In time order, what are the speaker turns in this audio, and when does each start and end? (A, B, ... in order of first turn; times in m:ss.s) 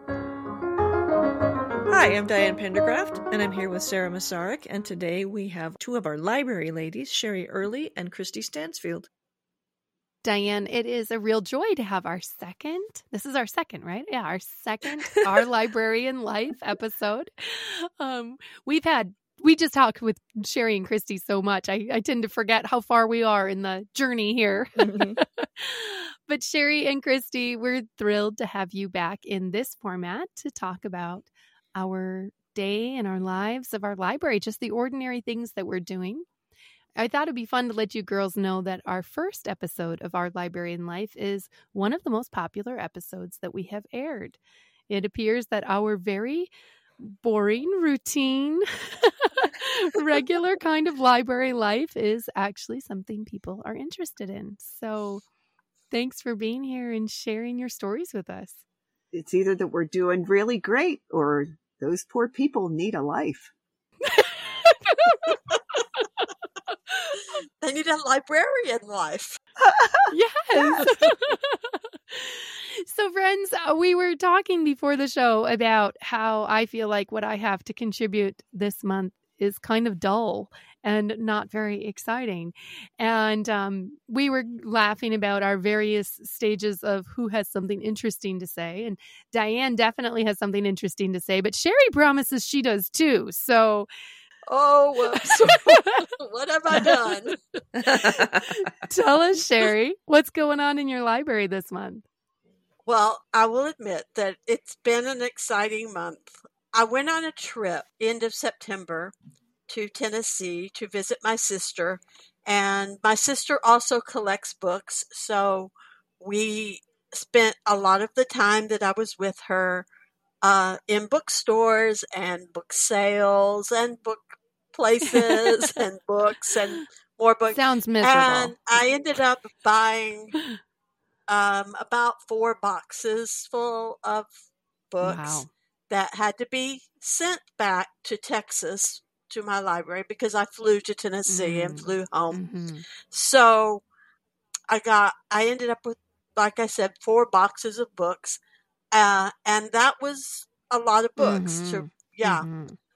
0:01.9-0:09.1 A
0:10.2-0:36.3 B
0:24.8-0:25.2 A
0:37.0-0:55.2 B
0:55.9-0:58.6 B
0:59.1-1:03.5 C
1:04.0-1:07.2 B
1:07.6-1:09.4 D
1:09.6-1:10.9 C
1:10.1-1:33.9 B
1:34.5-1:37.4 D
1:35.2-1:36.0 B
1:36.7-1:37.0 B
1:37.8-1:38.7 A
1:37.9-1:42.0 B
1:42.9-1:49.1 D
1:49.7-1:59.9 D
2:00.4-2:10.4 D
2:05.1-2:05.7 B
2:07.5-2:08.8 B
2:11.3-2:14.3 D
2:14.9-2:22.4 D
2:15.0-2:15.5 B
2:21.3-2:22.8 B
2:23.0-2:23.8 D
2:24.7-2:28.4 D
2:28.9-2:32.5 D
2:31.2-2:32.8 B